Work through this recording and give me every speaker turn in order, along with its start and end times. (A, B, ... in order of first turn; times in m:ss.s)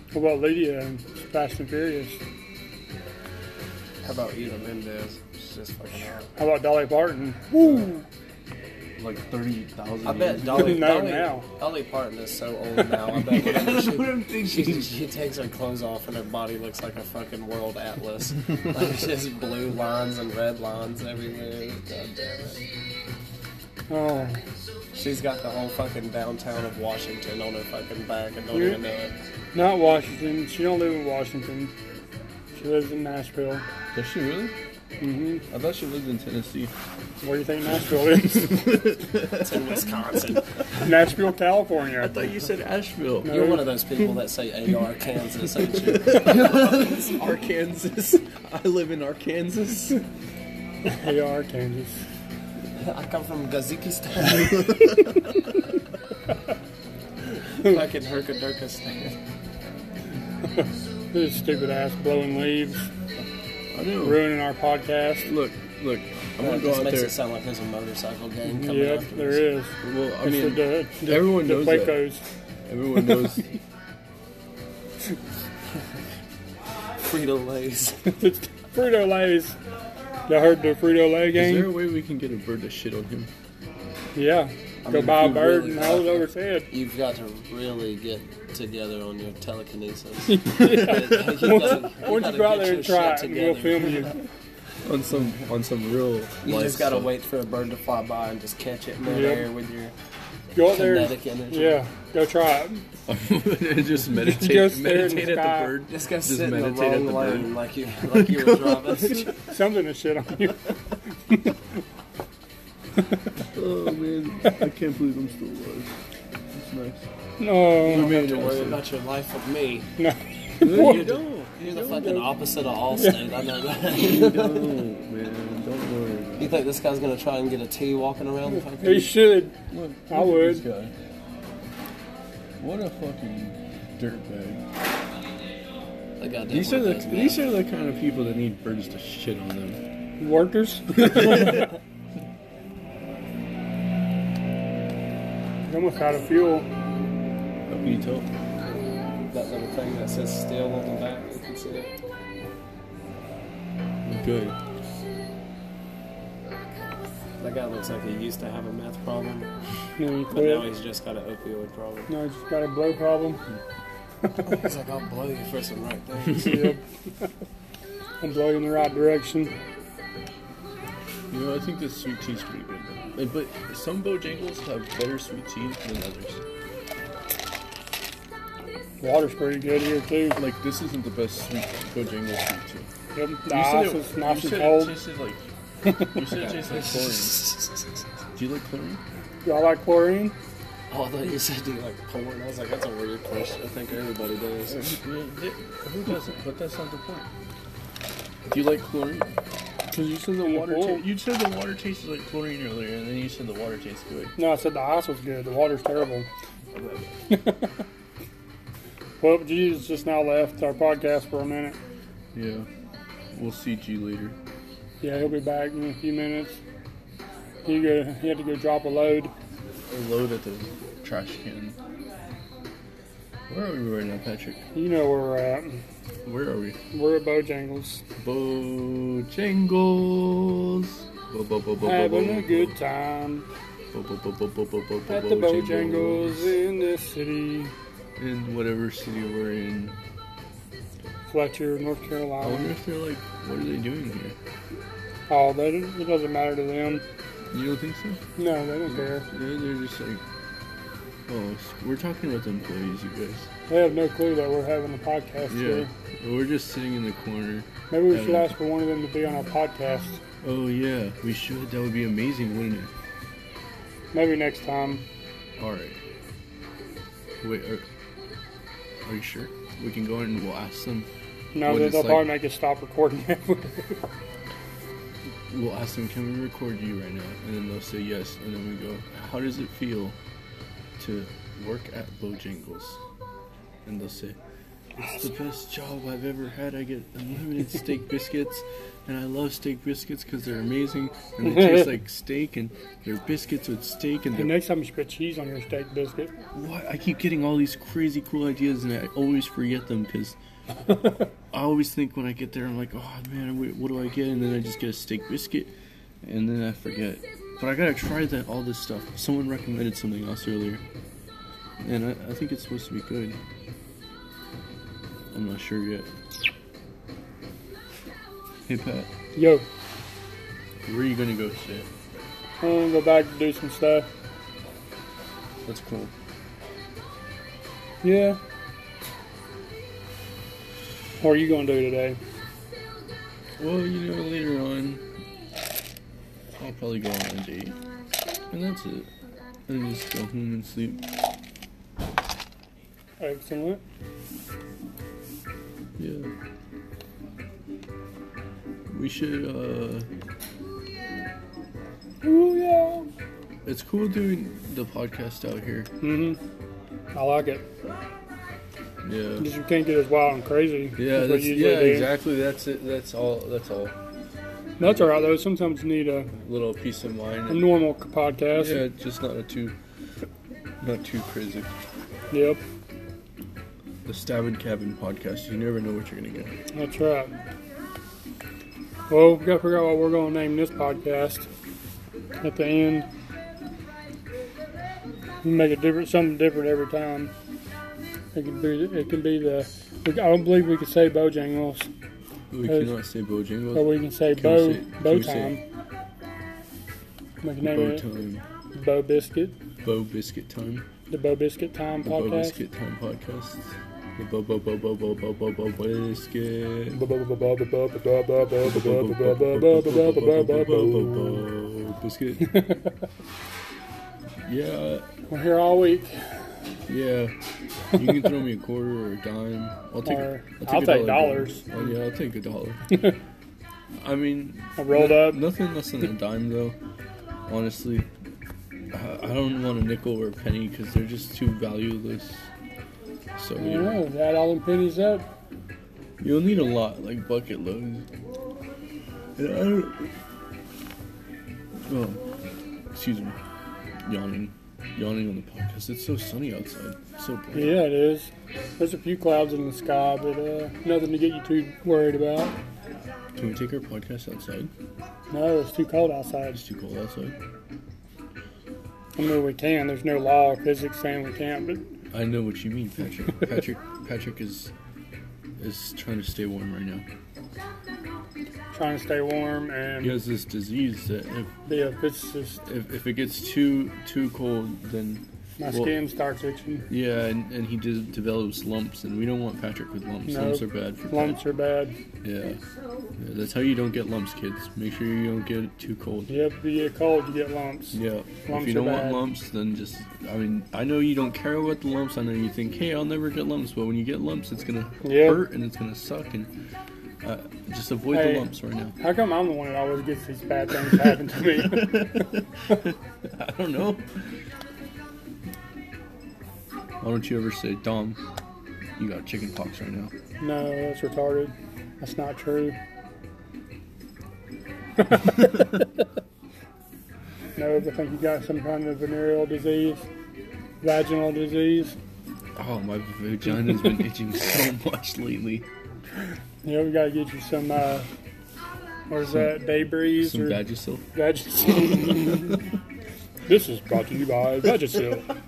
0:00.1-0:02.2 A
0:04.0-0:06.3 B
0:06.4-0:08.0 A
0:09.0-0:10.9 C
0:10.0-0:22.6 B
0:10.5-0:11.5 A
0:13.1-0:14.8 C
0:23.9-0:24.4 A
0:24.9-0:29.1 B
0:28.5-0:28.8 A
0:29.5-0:31.7 A
0:32.5-0:33.6 A
0:33.9-0:34.5 C
0:35.0-0:35.4 A
0:35.5-0:36.7 C
0:37.2-0:38.8 A
0:38.2-0:39.8 C
0:39.3-0:40.7 B
0:40.8-0:42.3 A
0:42.0-0:43.4 C
0:43.2-0:43.7 A
0:43.2-0:47.2 B
0:45.7-0:50.0 C
0:50.8-0:52.0 A
0:52.8-0:54.9 B
0:57.6-0:59.2 B
1:00.6-1:02.9 A
1:03.7-1:04.3 C
1:04.0-1:05.3 A
1:05.2-1:07.1 C
1:06.4-1:09.4 B
1:08.6-1:12.2 A
1:09.8-1:12.0 C
1:12.6-1:13.5 C
1:17.0-1:18.1 B
1:18.0-1:19.6 A
1:20.3-1:21.7 A
1:21.3-1:23.3 C
1:24.1-1:26.7 A
1:24.8-1:34.1 B
1:30.3-1:34.2 A
1:30.7-1:31.0 C
1:34.8-1:37.1 C
1:36.4-1:39.9 B
1:39.1-1:39.5 A
1:40.5-1:42.8 A
1:40.6-1:41.8 B
1:43.1-1:47.5 C
1:44.2-1:45.7 A
1:45.9-1:49.4 B
1:48.1-1:49.2 C
1:49.3-1:50.7 A
1:51.3-1:51.6 A
1:53.5-1:55.9 C
1:56.5-1:57.1 C
1:57.4-1:58.2 A
1:57.8-1:58.8 C
1:57.8-1:59.9 B
2:00.0-2:01.2 A
2:00.6-2:02.2 C
2:00.7-2:04.8 B
2:02.0-2:02.3 A
2:02.9-2:03.2 A
2:03.9-2:06.6 C
2:06.4-2:09.1 B
2:08.7-2:09.6 A
2:09.7-2:10.9 C
2:10.1-2:10.6 A
2:12.6-2:14.6 C
2:16.2-2:17.4 B
2:16.5-2:19.8 C
2:20.2-2:21.7 A
2:21.0-2:21.6 C
2:25.7-2:26.7 A
2:27.7-2:28.3 C
2:29.3-2:31.9 B
2:34.0-2:34.6 C
2:37.4-2:39.5 B
2:40.0-2:40.7 A
2:40.3-2:42.1 B
2:42.1-2:43.4 A
2:44.4-2:46.7 B
2:46.3-2:47.3 A
2:48.2-2:49.5 A
2:51.3-2:56.4 C
2:59.0-3:00.4 A
3:00.4-3:02.9 C
3:03.1-3:05.0 A
3:03.5-3:05.5 C
3:05.8-3:06.3 A
3:06.0-3:07.5 C
3:06.3-3:07.8 B
3:08.3-3:09.0 C
3:09.4-3:10.3 A
3:10.9-3:15.0 B
3:14.7-3:17.3 C
3:18.5-3:19.4 C
3:19.9-3:21.0 A
3:20.4-3:24.3 C
3:24.4-3:26.3 A
3:26.8-3:27.1 C
3:27.3-3:27.8 A
3:29.2-3:31.8 A
3:32.3-3:32.7 C
3:33.3-3:34.4 C
3:35.0-3:36.6 A
3:37.6-3:39.3 A
3:39.9-3:41.8 C
3:43.5-3:44.6 C
3:44.7-3:45.8 A
3:46.2-3:46.8 C
3:46.9-3:48.0 A
3:48.2-3:52.7 C
3:51.8-3:53.4 A
3:53.9-3:56.6 C
3:55.1-3:57.7 A
3:58.2-4:00.0 C
4:01.3-4:02.7 A
4:02.4-4:04.4 C
4:05.3-4:07.0 A
4:07.5-4:08.2 C
4:08.4-4:09.3 A
4:08.9-4:10.2 C
4:11.3-4:13.5 C
4:13.7-4:15.9 A
4:15.5-4:18.5 C
4:17.9-4:20.2 A
4:20.4-4:22.9 C
4:24.1-4:25.0 A
4:25.6-4:26.0 C
4:27.4-4:27.8 C
4:29.0-4:31.1 C
4:31.5-4:34.0 A
4:31.6-4:32.3 C
4:35.5-4:40.2 C
4:41.0-4:43.0 C
4:43.8-4:44.4 C
4:45.0-4:54.5 C
4:51.4-4:51.9 A
4:54.3-4:56.3 A
4:56.5-5:00.4 C
5:01.5-5:10.8 C
5:11.8-5:13.4 C
5:15.3-5:16.1 C
5:18.6-5:19.1 C
5:19.3-5:19.6 A
5:20.8-5:21.9 C
5:22.6-5:24.1 A
5:25.6-5:26.1 C
5:28.0-5:28.4 A
5:31.2-5:32.2 A
5:33.6-5:35.0 C
5:36.6-5:37.8 C
5:38.5-5:39.1 C
5:39.7-5:41.0 C
5:43.2-5:43.8 A
5:46.0-5:46.3 C
5:48.9-5:50.1 C
5:52.2-5:53.1 A
5:53.6-5:55.9 C
5:56.0-5:56.4 A
5:57.1-5:57.6 A
5:59.0-5:59.5 C
5:59.4-6:02.1 A
6:01.0-6:04.0 C
6:04.8-6:06.3 A
6:04.8-6:05.2 C
6:06.4-6:07.7 C
6:07.5-6:08.8 A
6:08.5-6:09.7 C
6:10.8-6:11.8 C
6:12.3-6:12.6 A
6:14.0-6:16.5 C
6:16.7-6:17.3 A
6:19.1-6:21.5 A
6:22.4-6:23.1 A
6:25.4-6:27.3 A
6:28.3-6:31.9 A
6:32.5-6:35.6 C
6:32.6-6:32.9 A
6:33.7-6:35.6 A
6:37.4-6:38.0 A
6:37.6-6:38.4 C
6:38.7-6:39.6 A
6:39.8-6:40.9 C
6:41.1-6:42.6 A
6:42.0-6:47.0 C
6:46.9-6:51.5 A
6:48.6-6:52.6 C
6:52.4-6:52.9 A
6:54.4-6:55.1 C
6:55.3-6:56.2 A
6:56.9-6:57.3 C
6:57.9-7:02.8 C
7:00.0-7:01.8 A
7:02.9-7:03.2 A
7:04.0-7:06.8 C
7:04.8-7:05.4 A
7:07.5-7:08.1 C
7:08.9-7:12.5 C
7:13.4-7:14.0 C
7:13.6-7:15.3 A
7:16.2-7:18.0 C
7:19.4-7:20.1 C
7:21.9-7:22.2 C
7:22.9-7:23.4 C
7:24.0-7:27.8 C
7:27.5-7:32.6 A
7:33.4-7:34.7 C
7:35.3-7:36.6 A
7:36.5-7:37.4 C
7:39.2-7:41.8 A
7:42.1-7:44.7 C
7:45.6-7:47.0 C
7:48.7-7:50.2 A
7:50.0-7:51.5 C
7:51.6-7:52.6 A
7:52.6-7:55.9 C
7:55.6-7:56.9 A
7:56.9-8:01.4 C
8:00.3-8:02.0 A
8:02.2-8:02.6 C
8:03.2-8:06.3 C
8:06.3-8:09.2 A
8:07.9-8:16.5 C
8:15.0-8:15.4 A
8:17.2-8:19.0 C
8:18.1-8:18.5 A
8:19.0-8:22.3 A
8:21.6-8:24.1 C
8:27.0-8:28.2 C
8:29.0-8:30.1 C
8:30.4-8:32.8 A
8:35.1-8:35.5 A
8:37.6-8:40.1 A
8:40.8-8:42.0 A
8:42.6-8:45.6 C
8:46.6-8:48.1 A
8:49.1-8:50.6 A
8:50.1-8:51.0 C
8:51.1-8:52.6 A
8:53.5-8:55.3 A